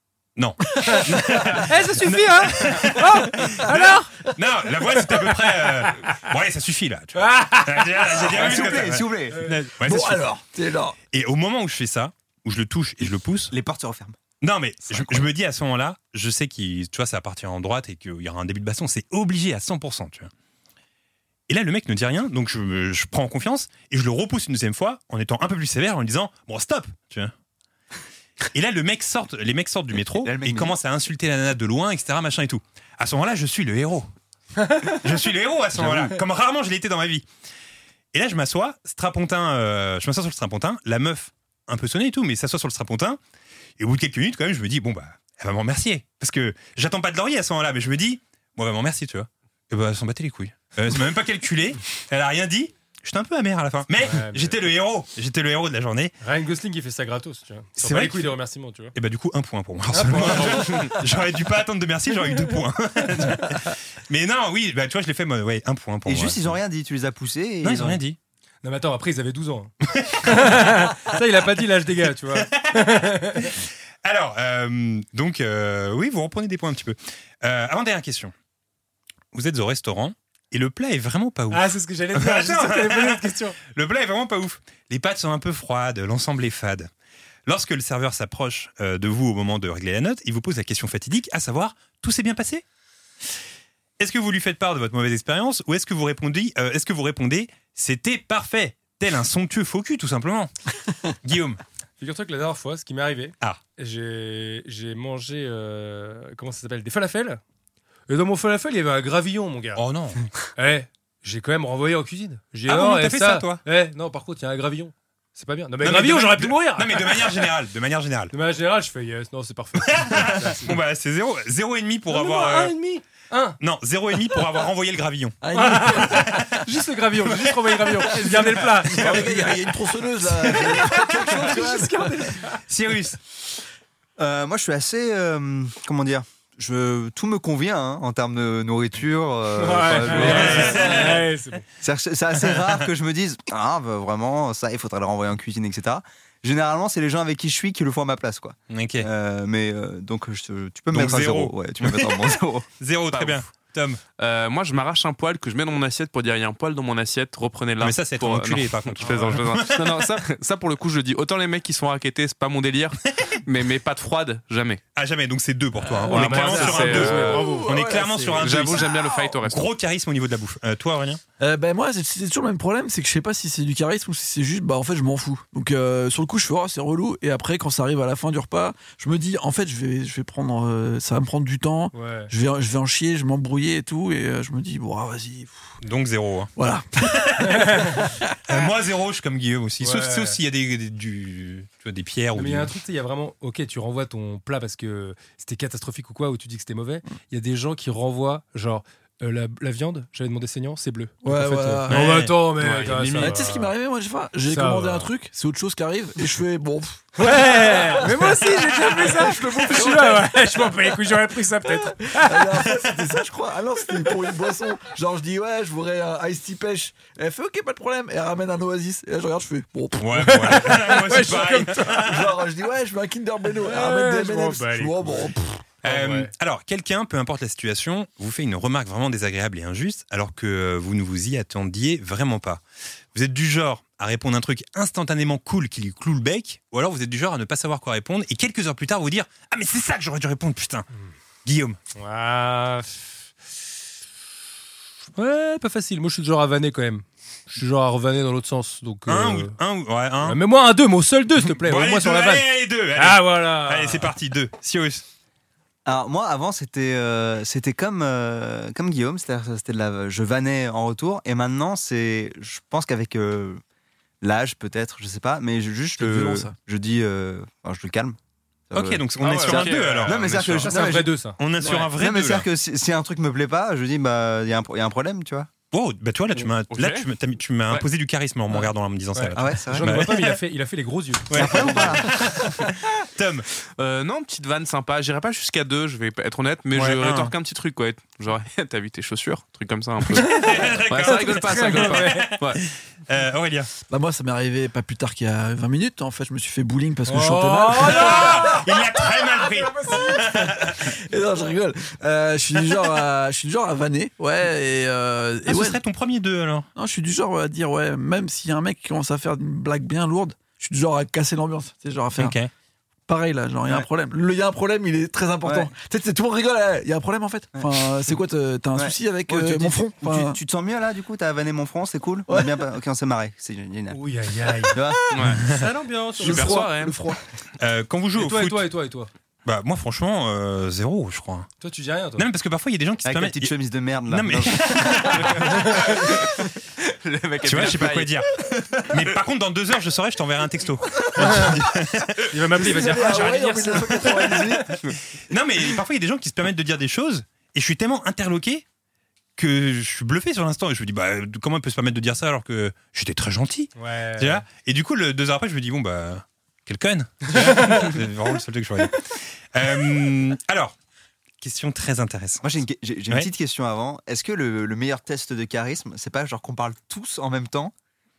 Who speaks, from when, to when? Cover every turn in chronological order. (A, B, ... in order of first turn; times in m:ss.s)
0:00.4-0:10.3 A
0:00.9-0:01.5 B
0:01.5-0:04.3 C
0:05.2-0:05.9 C
0:07.2-0:09.0 C
0:08.2-0:09.4 D
0:09.8-0:11.0 B
0:11.1-0:13.5 A
0:13.5-0:14.2 D
0:14.4-0:20.3 A
0:14.9-0:15.3 D
0:21.5-0:27.3 A
0:28.5-0:34.1 A
0:30.2-0:30.8 D
0:34.9-0:37.3 A
0:38.1-0:43.2 A
0:43.8-0:56.2 A
0:54.0-0:54.5 C
0:56.2-0:58.9 C
0:57.8-0:58.3 A
0:59.0-1:06.6 A
0:59.9-1:01.0 C
1:06.1-1:08.0 D
1:07.6-1:08.2 A
1:08.6-1:09.7 C
1:09.9-1:10.6 A
1:10.2-1:13.5 C
1:12.3-1:18.3 A
1:19.3-1:26.9 A
1:21.5-1:23.6 C
1:27.5-1:32.6 A
1:34.0-1:40.5 A
1:41.2-1:41.6 A
1:42.0-1:47.4 C
1:48.1-1:49.8 C
1:49.8-1:50.3 A
1:50.6-1:57.5 C
1:52.7-1:53.6 A
1:55.8-1:58.3 A
1:58.3-2:00.8 C
1:59.8-2:02.7 A
2:02.1-2:03.6 C
2:03.6-2:05.4 A
2:05.4-2:06.5 B
2:05.5-2:09.5 C
2:06.0-2:06.5 A
2:07.3-2:08.0 A
2:08.2-2:12.4 B
2:08.9-2:09.5 A
2:10.5-2:12.6 C
2:10.5-2:11.4 A
2:12.5-2:13.2 A
2:14.2-2:21.3 D
2:19.6-2:21.7 C
2:20.0-2:21.2 A
2:21.8-2:32.7 D
2:28.7-2:29.1 A
2:30.9-2:34.0 A
2:33.1-2:33.4 E
2:34.2-2:44.8 E
2:37.8-2:40.1 A
2:39.0-2:39.4 C
2:45.0-2:51.2 A
2:45.8-2:49.1 B
2:46.0-2:47.8 C
2:46.1-2:47.6 E
2:48.4-2:49.7 E
2:51.4-3:05.7 B
3:01.9-3:02.3 C
3:05.8-3:12.7 A
3:06.6-3:07.3 B
3:07.6-3:08.0 C
3:09.8-3:10.4 C
3:12.4-3:23.7 C
3:21.2-3:22.0 B
3:22.0-3:23.4 E
3:23.2-3:30.7 B
3:24.5-3:25.1 C
3:27.2-3:32.7 C
3:31.7-3:41.0 B
3:40.0-3:42.3 A
3:40.3-3:42.1 C
3:41.8-3:45.6 B
3:43.6-3:45.3 C
3:45.8-3:46.3 C
3:45.8-3:52.6 A
3:53.1-4:00.9 A
4:01.4-4:01.8 A
4:02.0-4:03.2 C
4:05.2-4:09.5 C
4:09.1-4:10.4 A
4:10.2-4:14.1 C
4:11.4-4:15.0 A
4:15.9-4:23.6 D
4:24.2-4:28.2 D
4:26.0-4:26.6 B
4:28.7-4:35.5 D
4:28.7-4:32.5 A
4:29.2-4:30.1 E
4:30.6-4:31.4 C
4:35.7-4:40.4 A
4:36.7-4:37.0 E
4:39.2-4:42.0 C
4:39.4-4:40.1 D
4:41.3-4:43.5 A
4:41.3-4:42.2 D
4:43.8-4:52.6 E
4:46.8-4:47.3 A
4:50.1-4:53.7 A
4:50.3-4:50.7 C
4:51.3-4:52.4 C
4:53.9-4:58.6 B
4:57.1-4:58.7 C
4:57.8-5:00.9 A
5:00.1-5:05.8 B
5:05.5-5:06.7 A
5:06.8-5:12.4 B
5:12.2-5:12.5 A
5:13.1-5:20.4 B
5:15.4-5:15.7 D
5:18.8-5:24.0 D
5:23.9-5:24.8 C
5:24.7-5:25.4 D
5:25.1-5:25.4 E
5:25.4-5:26.6 C
5:26.2-5:27.0 E
5:26.2-5:27.2 B
5:27.6-5:28.7 A
5:28.2-5:29.1 C
5:29.4-5:31.5 A
5:31.6-5:32.3 C
5:32.2-5:33.5 A
5:33.0-5:36.3 D
5:34.1-5:35.5 A
5:36.9-5:38.2 E
5:37.4-5:38.3 A
5:38.8-5:42.3 A
5:41.2-5:41.6 C
5:42.3-5:44.4 C
5:42.6-5:44.7 B
5:45.1-5:48.6 A
5:49.4-6:00.8 A
5:53.8-5:54.4 C
5:57.4-5:57.9 C
6:01.4-6:02.4 A
6:02.4-6:07.7 D